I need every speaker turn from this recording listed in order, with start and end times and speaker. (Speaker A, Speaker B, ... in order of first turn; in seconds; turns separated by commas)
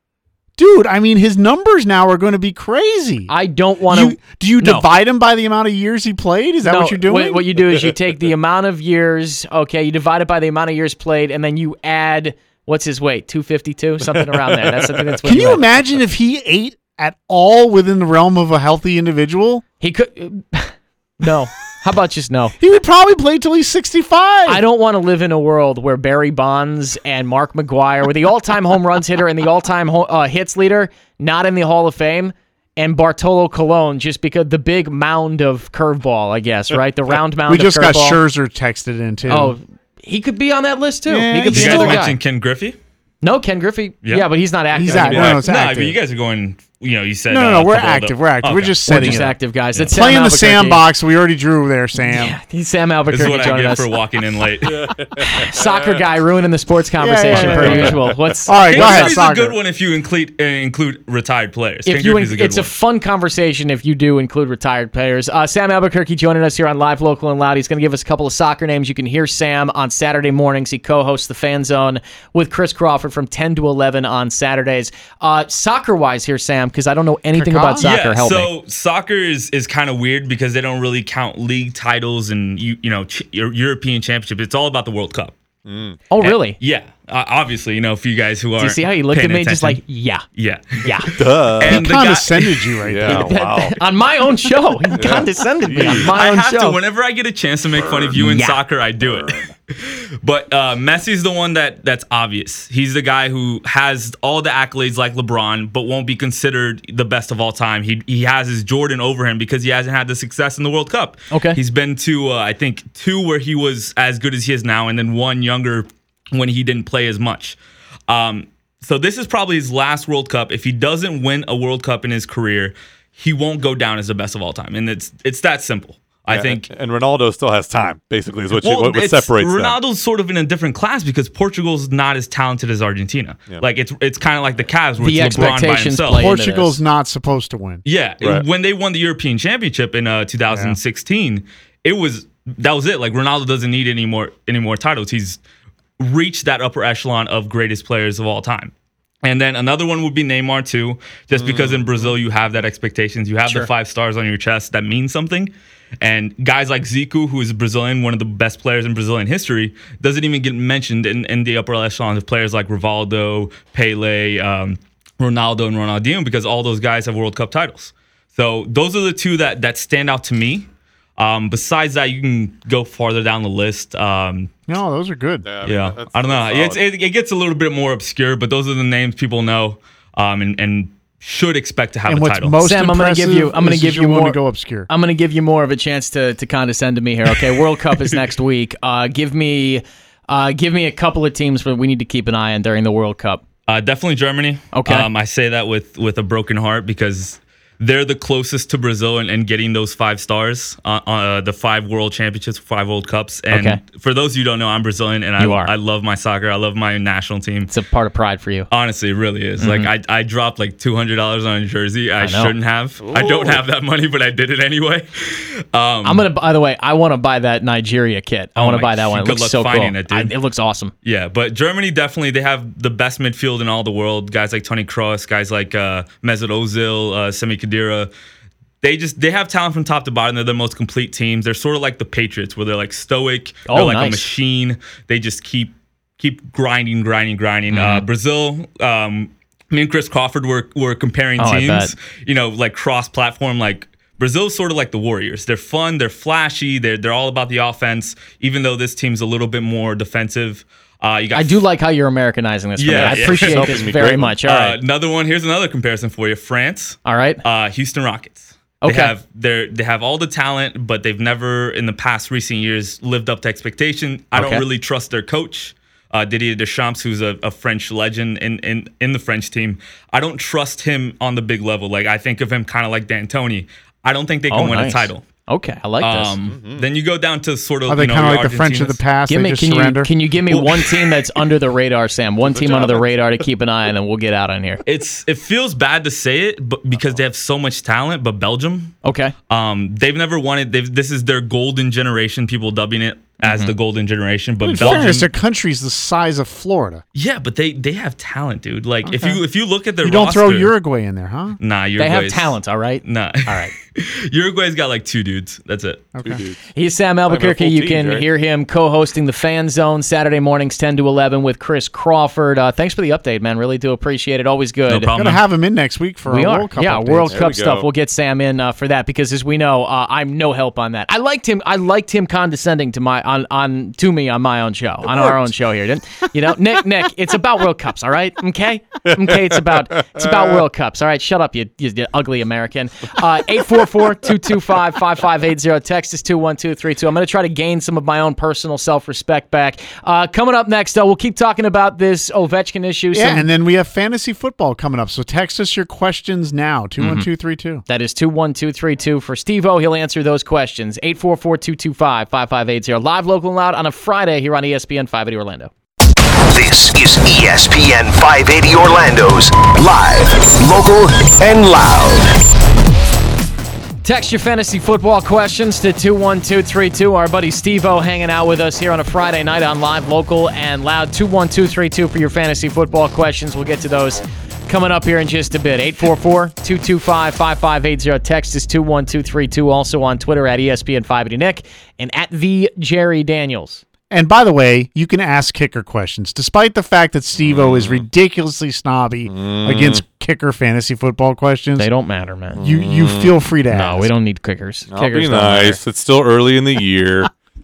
Speaker A: 0.6-3.3, Speaker B: 3.3-4.8, Speaker A: 3.9-7.4, Speaker B: 6.6-15.7, Speaker C: 14.3-15.2, Speaker A: 15.2-19.6, Speaker B: 19.8-22.5, Speaker A: 22.6-24.6, Speaker B: 24.4-38.2, Speaker A: 37.5-39.5, Speaker B: 39.3-42.2, Speaker A: 41.1-42.1, Speaker D: 41.5-42.8, Speaker B: 43.2-45.3, Speaker A: 44.8-46.0, Speaker D: 44.9-49.2, Speaker C: 45.0-45.4, Speaker A: 47.3-49.4, Speaker B: 48.9-50.8, Speaker A: 49.9-52.3, Speaker B: 52.0-53.9, Speaker D: 53.1-54.9, Speaker C: 54.7-56.0, Speaker B: 55.1-59.1, Speaker A: 57.0-59.6, Speaker C: 57.3-58.1, Speaker D: 58.7-62.7, Speaker B: 61.8-78.5, Speaker A: 77.3-77.9, Speaker D: 77.8-85.3, Speaker C: 85.7-86.0, Speaker B: 86.1-86.6, Speaker D: 86.2-89.8, Speaker B: 88.6-90.2, Speaker D: 90.3-92.8, Speaker B: 90.8-91.1, Speaker C: 91.2-91.8, Speaker A: 91.6-93.3, Speaker C: 92.8-93.8, Speaker B: 93.0-96.8, Speaker C: 95.0-96.1, Speaker D: 95.7-117.6, Speaker C: 97.8-98.2, Speaker B: 98.1-98.6, Speaker C: 99.0-99.5, Speaker B: 111.3-111.6, Speaker D: 118.1-126.7, Speaker C: 126.3-129.8, Speaker D: 128.5-136.3, Speaker B: 135.0-136.8, Speaker A: 136.1-137.8, Speaker D: 137.8-145.4, Speaker A: 140.5-140.8, Speaker D: 146.0-148.7, Speaker D: 149.2-174.5, Speaker C: 151.3-152.1, Speaker A: 174.7-175.4, Speaker C: 175.4-176.8, Speaker D: 175.6-182.6, Speaker A: 182.1-184.9, Speaker B: 182.6-184.4, Speaker B: 184.9-193.4, Speaker D: 193.7-207.7, Speaker B: 194.7-195.1, Speaker B: 203.5-203.8, Speaker B: 205.4-205.7, Speaker B: 207.7-208.7, Speaker D: 208.7-216.2, Speaker B: 209.6-209.9, Speaker B: 212.2-212.5, Speaker C: 213.0-213.6, Speaker B: 216.0-220.9, Speaker D: 218.6-220.3, Speaker D: 221.0-228.1, Speaker D: 228.8-251.6, Speaker B: 233.7-234.2, Speaker B: 237.7-238.0, Speaker B: 241.4-241.9, Speaker B: 251.3-254.8, Speaker D: 252.8-253.9, Speaker C: 252.9-254.4, Speaker D: 254.4-275.2, Speaker B: 257.0-257.4, Speaker B: 258.8-259.1, Speaker B: 264.3-264.6, Speaker B: 274.5-276.4, Speaker D: 276.0-279.0, Speaker C: 276.5-276.9, Speaker A: 277.9-280.1, Speaker B: 279.3-284.8, Speaker C: 282.5-283.1, Speaker D: 284.8-288.9, Speaker B: 289.0-289.3, Speaker D: 289.5-295.3, Speaker B: 293.4-293.7, Speaker A: 294.6-297.0, Speaker D: 297.1-300.7, Speaker A: 299.1-299.4, Speaker A: 300.0-301.6, Speaker D: 301.6-306.1, Speaker B: 302.0-303.7, Speaker A: 306.1-306.4, Speaker C: 306.2-306.6, Speaker B: 306.7-315.1, Speaker C: 307.3-308.2, Speaker D: 314.9-315.4, Speaker A: 315.1-317.4, Speaker B: 316.3-343.5, Speaker C: 317.3-317.9, Speaker C: 325.1-325.4, Speaker C: 329.1-329.4, Speaker C: 330.1-330.4, Speaker A: 343.1-347.8, Speaker B: 347.0-347.3, Speaker B: 347.9-355.7, Speaker E: 356.5-362.3, Speaker B: 364.0-383.8, Speaker A: 384.1-391.9, Speaker C: 387.4-388.0, Speaker C: 389.3-390.0, Speaker B: 391.8-392.6, Speaker C: 392.6-393.3, Speaker A: 392.6-394.1, Speaker B: 393.7-395.8, Speaker C: 394.9-397.3